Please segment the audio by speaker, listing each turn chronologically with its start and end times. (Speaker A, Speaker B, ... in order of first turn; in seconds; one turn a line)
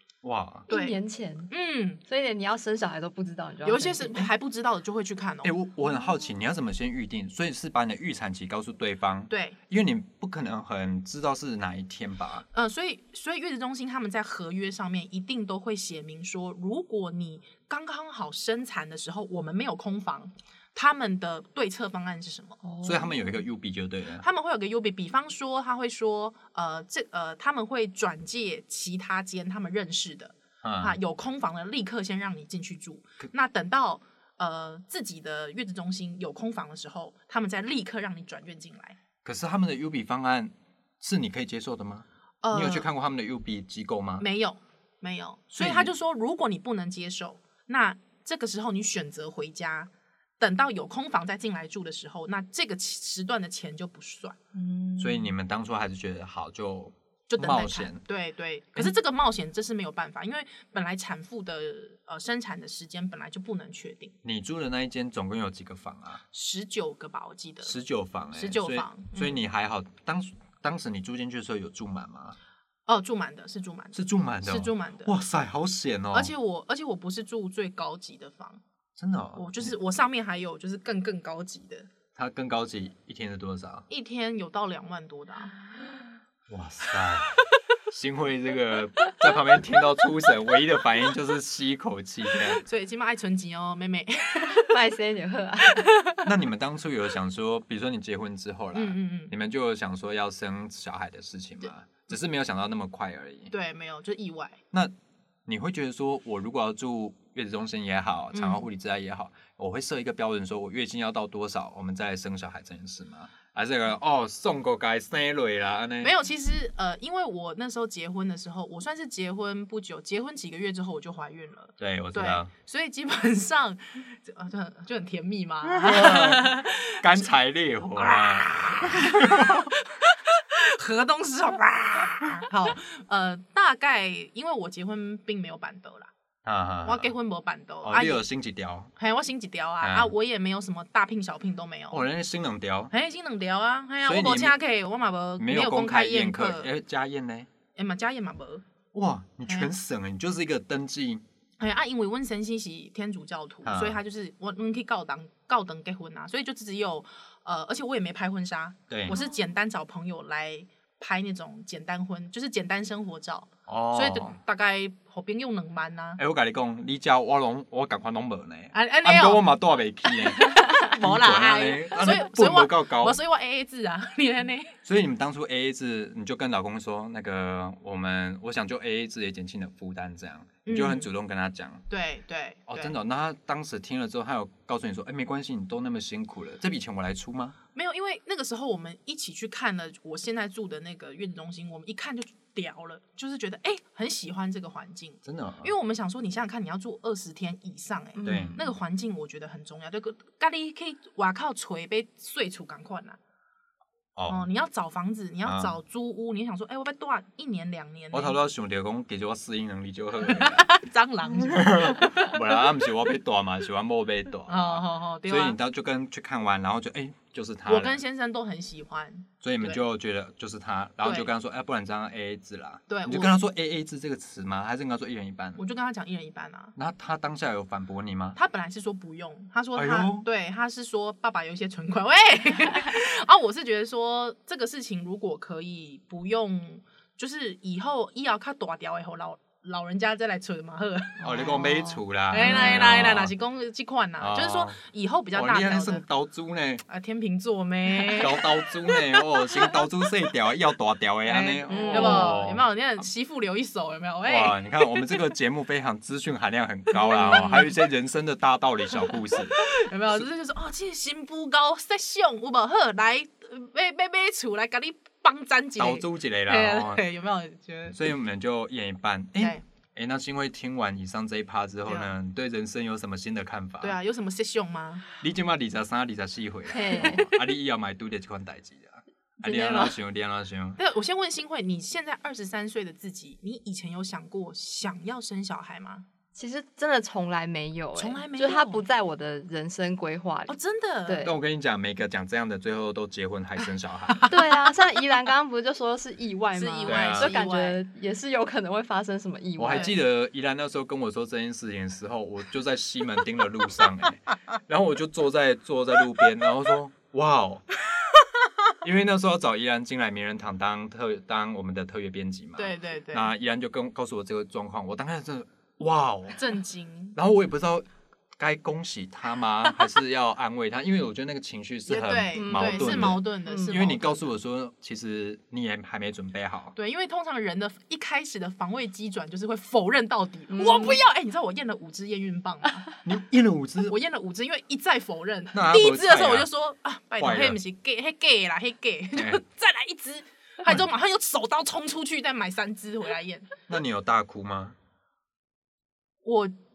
Speaker A: 0.2-0.7
Speaker B: 0.7-1.5
Speaker C: 0.7-1.0
Speaker C: 1.5-2.0
Speaker B: 2.0-4.3
Speaker C: 3.6-5.5
Speaker A: 5.4-12.4
Speaker C: 9.3-9.6
Speaker C: 12.5-22.6
Speaker B: 22.6-23.3
Speaker A: 22.8-24.2
Speaker C: 24.2-39.0
Speaker A: 30.6-31.0
Speaker A: 39.2-44.2
Speaker C: 42.4-42.9
Speaker C: 44.2-54.4
Speaker A: 45.5-45.9
Speaker B: 54.5-55.3
Speaker A: 55.0-58.0
Speaker C: 57.3-64.1
Speaker A: 64.2-66.2
Speaker C: 66.3-67.7
Speaker A: 67.6-72.3
Speaker C: 68.3-69.4
Speaker C: 72.9-75.1
Speaker A: 73.9-76.3
Speaker C: 76.1-78.6
Speaker A: 79.0-79.7
Speaker C: 79.3-81.9
Speaker A: 82.1-83.9
Speaker C: 83.9-85.5
Speaker A: 86.5-87.4
Speaker A: 87.9-92.6
Speaker C: 92.5-94.8
Speaker B: 94.5-95.9
Speaker C: 95.7-96.2
Speaker A: 96.2-103.5
Speaker C: 98.7-99.3
Speaker C: 103.5-104.6
Speaker A: 105.5-116.1
Speaker C: 108.3-108.7
Speaker C: 116.0-127.3
Speaker A: 121.8-122.5
Speaker A: 125.6-129.7
Speaker C: 128.0-136.1
Speaker A: 136.4-137.1
Speaker C: 136.8-138.2
Speaker A: 137.8-138.9
Speaker C: 138.9-142.0
Speaker A: 139.8-140.1
Speaker A: 141.9-142.9
Speaker C: 142.9-146.7
Speaker A: 144.0-144.6
Speaker A: 145.4-147.5
Speaker C: 147.7-148.6
Speaker A: 148.9-151.2
Speaker C: 149.4-149.7
Speaker C: 151.6-166.2
Speaker A: 153.6-154.0
Speaker A: 158.9-159.2
Speaker A: 163.7-164.3
Speaker A: 166.2-173.2
Speaker C: 168.7-169.5
Speaker C: 170.0-174.8
Speaker A: 174.8-181.8
Speaker C: 180.6-181.1
Speaker C: 181.9-182.9
Speaker A: 182.7-187.6
Speaker C: 187.7-203.2
Speaker A: 195.2-195.7
Speaker B: 198.2-198.7
Speaker A: 198.2-198.6
Speaker A: 204.2-204.5
Speaker C: 204.3-208.4
Speaker A: 205.4-205.8
Speaker A: 208.1-210.7
Speaker C: 210.2-212.4
Speaker A: 211.3-218.0
Speaker C: 214.5-215.6
Speaker C: 217.7-219.8
Speaker A: 219.4-225.6
Speaker C: 221.0-221.3
Speaker C: 222.9-223.3
Speaker C: 225.6-226.7
Speaker A: 226.8-228.4
Speaker C: 228.3-241.5
Speaker A: 229.8-230.2
Speaker B: 241.2-242.8
Speaker A: 241.2-243.3
Speaker C: 242.3-246.1
Speaker A: 244.2-244.8
Speaker A: 245.3-246.8
Speaker C: 246.9-249.0
Speaker A: 248.1-252.7
Speaker C: 251.2-255.2
Speaker B: 251.7-252.4
Speaker A: 254.2-260.2
Speaker C: 256.9-257.8
Speaker C: 259.5-268.1
Speaker A: 265.8-267.0
Speaker A: 267.9-274.0
Speaker C: 269.4-269.6
Speaker C: 271.9-272.1
Speaker C: 273.8-275.1
Speaker A: 275.2-280.8
Speaker B: 276.7-277.3
Speaker C: 276.9-277.2
Speaker B: 279.4-279.9
Speaker C: 280.8-286.1
Speaker B: 286.3-290.5
Speaker C: 287.9-288.8
Speaker C: 290.5-291.2
Speaker B: 291.1-291.3
Speaker A: 291.2-294.3
Speaker B: 294.3-299.9
Speaker C: 296.5-297.8
Speaker A: 296.9-297.4
Speaker A: 299.6-307.6
Speaker A: 308.8-316.4
Speaker C: 312.6-313.3
Speaker C: 316.3-317.2
Speaker A: 317.1-317.9
Speaker A: 318.4-326.7
Speaker C: 321.9-324.3
Speaker B: 322.4-323.8
Speaker C: 326.7-332.9
Speaker B: 330.5-331.0
Speaker A: 333.0-333.9
Speaker C: 333.9-343.5
Speaker A: 335.5-336.5
Speaker A: 337.2-337.6
Speaker A: 339.1-339.4
Speaker A: 343.7-344.8
Speaker C: 346.2-346.5